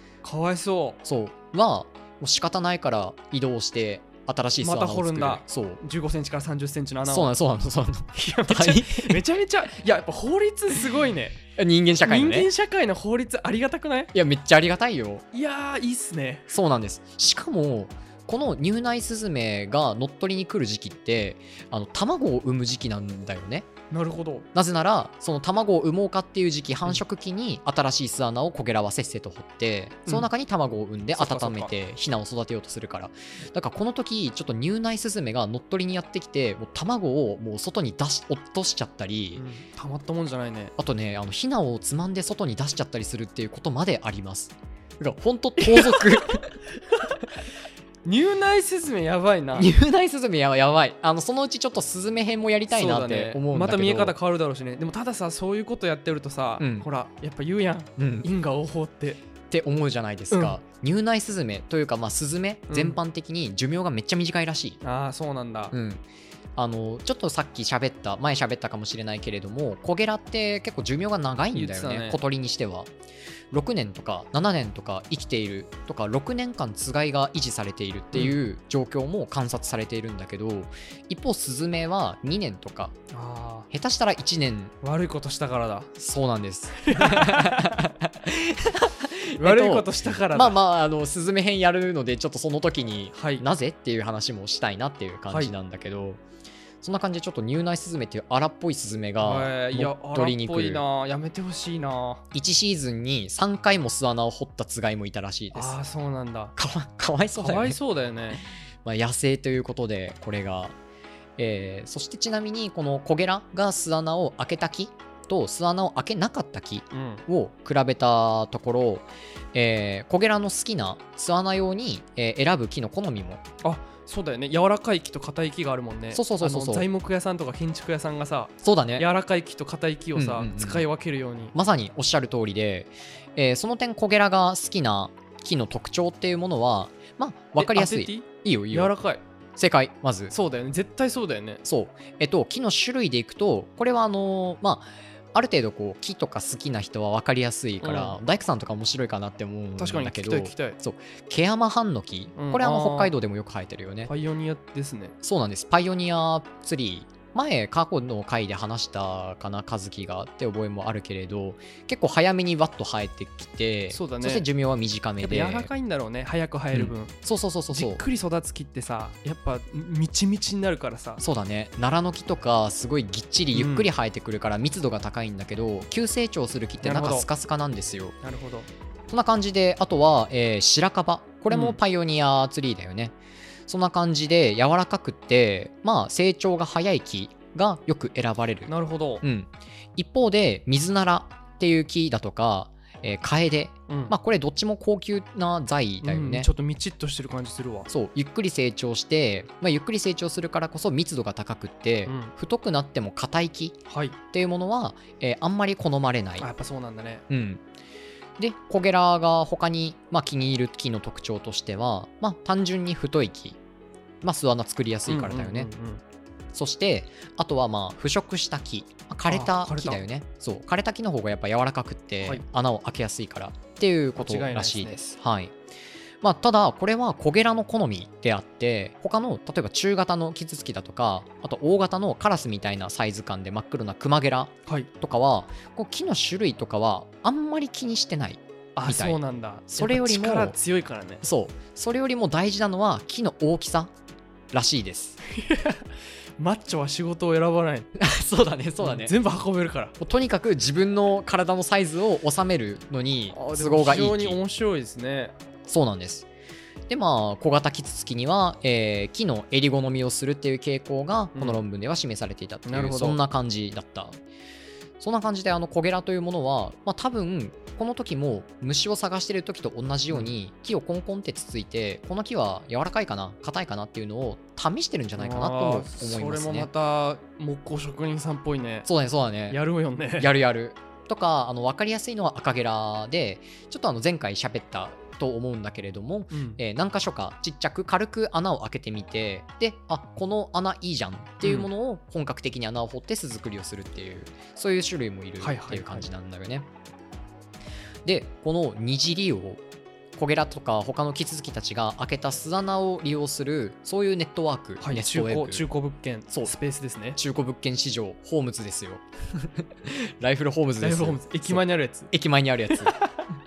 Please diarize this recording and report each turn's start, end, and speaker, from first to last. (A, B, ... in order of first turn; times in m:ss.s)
0:00.2-0:01.0 A
0:01.0-0:05.8 B
0:04.6-0:07.3 A
0:07.1-0:09.2 B
0:08.2-0:11.4 A
0:11.6-0:12.5 B
0:12.0-0:14.1 A
0:14.1-0:15.2 B
0:15.3-0:16.5 A
0:16.5-0:23.7 B
0:23.9-0:24.5 A
0:24.5-0:39.4 B
0:31.1-0:31.7 A
0:39.4-0:40.7 A
0:40.8-0:46.6 B
0:45.6-0:47.2 A
0:48.0-0:49.7 A
0:49.6-0:54.2 B
0:52.7-0:59.2 A
0:56.6-0:56.9 B
0:58.0-0:58.3 B
0:59.5-1:04.8 B
1:00.3-1:00.6 A
1:02.7-1:03.0 A
1:04.8-1:05.7 A
1:05.7-1:06.0 B
1:06.6-1:12.9 B
1:11.5-1:12.2 A
1:13.5-1:23.0 B
1:18.1-1:18.4 A
1:23.1-1:23.7 A
1:23.7-1:24.7 B
1:24.8-1:25.9 A
1:26.0-1:36.2 B
1:26.8-1:27.8 A
1:29.4-1:30.6 A
1:33.2-1:33.4 A
1:36.8-1:40.8 B
1:39.2-1:42.2 A
1:42.3-1:45.8 B
1:45.5-1:46.5 A
1:46.6-1:47.8 B
1:47.4-1:48.4 A
1:48.3-1:50.8 B
1:51.4-2:03.4 B
1:56.9-1:57.2 A
2:03.6-2:11.5 A
2:06.1-2:06.9 B
2:08.6-2:09.1 B
2:10.2-2:10.9 B
2:11.5-2:19.0 B
2:17.6-2:19.2 A
2:19.6-2:20.3 B
2:20.3-2:21.6 A
2:21.6-2:34.1 B
2:27.8-2:28.2 A
2:29.8-2:30.8 A
2:32.4-2:33.1 A
2:34.1-2:35.1 A
2:35.2-2:45.7 B
2:43.9-2:44.5 A
2:45.2-2:47.2 A
2:46.7-2:48.0 B
2:47.7-2:51.2 A
2:51.2-2:58.2 B
2:53.5-2:53.9 A
2:56.8-2:57.3 A
2:58.2-2:58.7 A
2:59.1-3:03.2 B
3:01.5-3:01.8 A
3:03.7-3:16.5 B
3:08.7-3:09.2 A
3:16.0-3:17.9 A
3:17.9-3:23.8 B
3:22.1-3:22.3 A
3:23.9-3:24.2 A
3:24.3-3:26.5 B
3:26.4-3:27.2 A
3:27.3-3:27.6 B
3:28.4-3:33.6 B
3:34.2-3:35.7 B
3:35.1-3:36.0 A
3:36.5-3:45.6 B
3:39.3-3:40.0 A
3:44.2-3:45.0 A
3:46.2-3:59.2 B
3:58.8-4:01.2 A
3:59.7-4:00.6 B
4:01.2-4:03.9 B
4:04.5-4:05.2 B
4:05.3-4:07.9 A
4:08.0-4:09.1 B
4:08.8-4:10.0 A
4:10.0-4:14.4 B
4:13.3-4:15.4 A
4:15.7-4:16.3 B
4:16.9-4:24.2 B
4:21.4-4:21.6 A
4:22.6-4:23.2 A
4:25.0-4:36.7 B
4:35.2-4:38.9 A
4:38.8-4:39.6 B
4:39.5-4:40.3 A
4:40.2-4:56.7 B
4:46.3-4:46.6 A
4:51.4-4:51.7 A
4:55.4-4:56.1 A
4:58.0-4:59.6 B
5:00.2-5:05.7 B
5:04.8-5:07.2 A
5:07.2-5:13.0 B
5:10.8-5:12.1 A
5:12.7-5:13.3 A